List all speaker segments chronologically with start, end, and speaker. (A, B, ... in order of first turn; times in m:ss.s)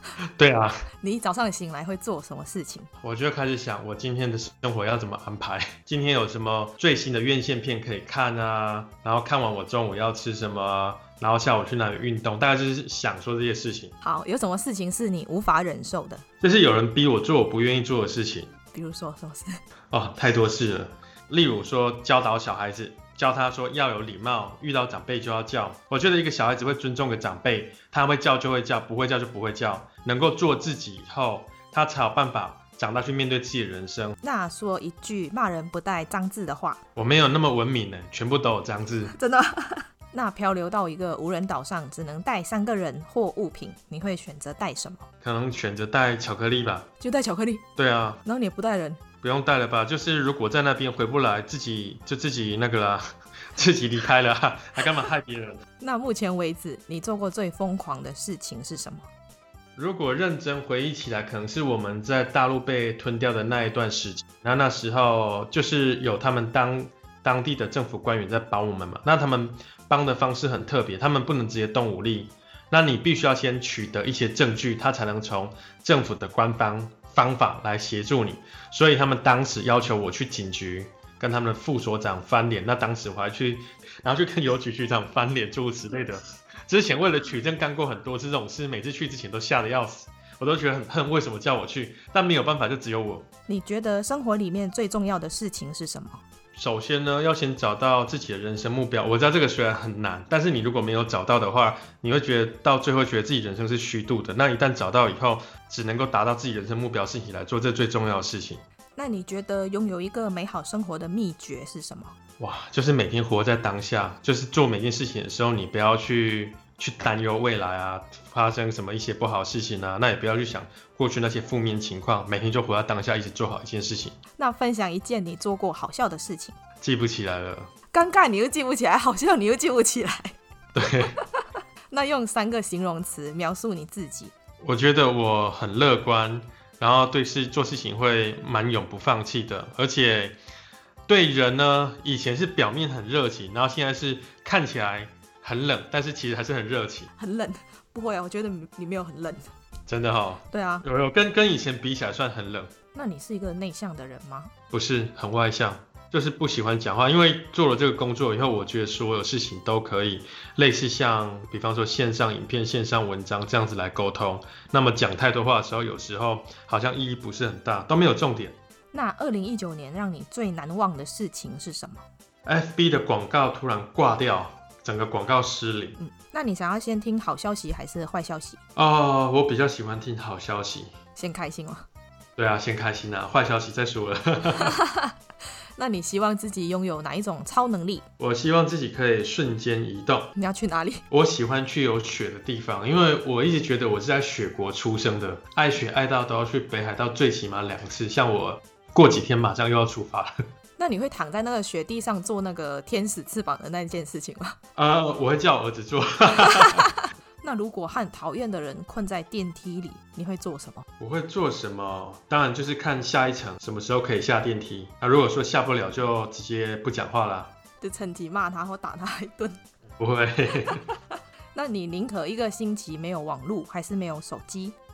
0:00.2-0:00.8 A
0:01.0-0:02.9 B
0:03.0-0:14.0 A
0:14.0-0:16.2 B
0:16.4-0:18.5 A
0:18.7-0:19.6 B
0:19.9-0:34.2 A
0:34.2-0:36.8 B
0:37.0-0:39.1 A
0:39.1-0:45.1 B
0:45.2-0:46.9 A
0:47.0-0:47.6 B
0:47.8-0:48.2 A
0:48.2-0:49.0 B
0:49.2-0:55.6 A
0:55.8-0:59.1 B
0:59.8-1:33.3 A
1:33.5-1:36.2 B
1:36.6-1:48.6 A
1:49.0-1:52.2 B
1:52.4-2:04.2 A
2:04.4-2:06.6 B
2:06.8-2:07.7 A
2:07.9-2:10.4 B
2:10.8-2:11.2 A
2:11.1-2:14.3 B
2:14.6-2:20.4 A
2:21.1-2:27.1 A
2:27.2-2:29.5 B
2:29.9-2:32.7 A
2:30.5-2:30.8 B
2:32.9-2:34.5 B
2:34.7-2:48.6 A
2:48.9-2:52.0 B
2:52.4-2:56.0 A
2:56.0-2:58.6 B
2:58.8-3:00.9 A
3:01.2-3:01.9 B
3:02.4-3:04.7 A
3:04.6-3:05.1 B
3:05.8-3:08.0 B
3:08.2-3:10.3 A
3:10.4-3:11.0 B
3:11.1-3:20.4 A
3:20.8-3:24.6 B
3:24.8-3:26.9 A
3:27.4-3:30.8 B
3:31.0-3:37.5 A
3:37.8-3:39.6 B
3:40.0-3:40.8 A
3:40.6-3:41.0 B
3:41.5-3:44.8 B